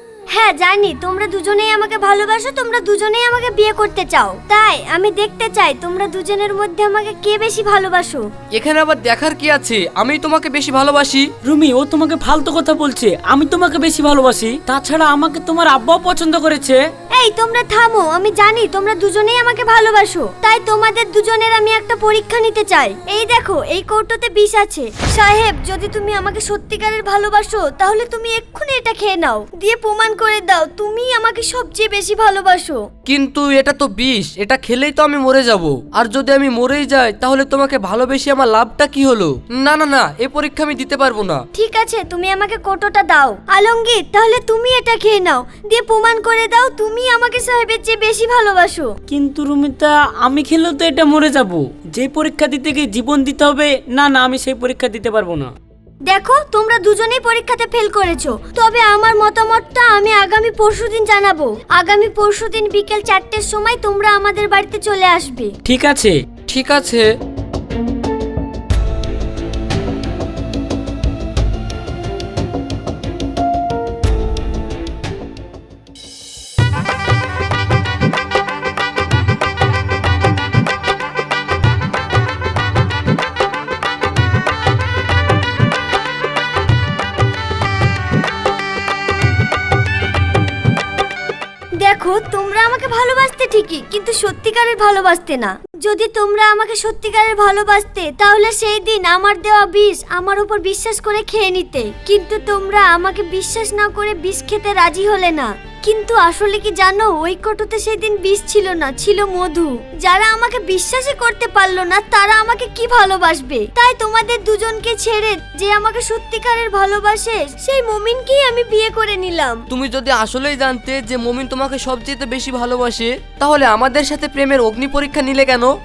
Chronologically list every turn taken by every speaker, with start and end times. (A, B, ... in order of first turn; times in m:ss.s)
0:00.3-0:08.2 A
0:08.5-0:11.3 B
0:11.4-0:16.8 C
0:17.2-0:32.8 A
0:33.0-0:41.4 B
0:41.5-0:48.9 A
0:49.1-0:55.5 C
0:56.0-1:05.5 A
1:05.6-1:06.2 C
1:06.5-1:07.1 B
1:31.8-1:59.6 A
1:59.7-2:05.7 B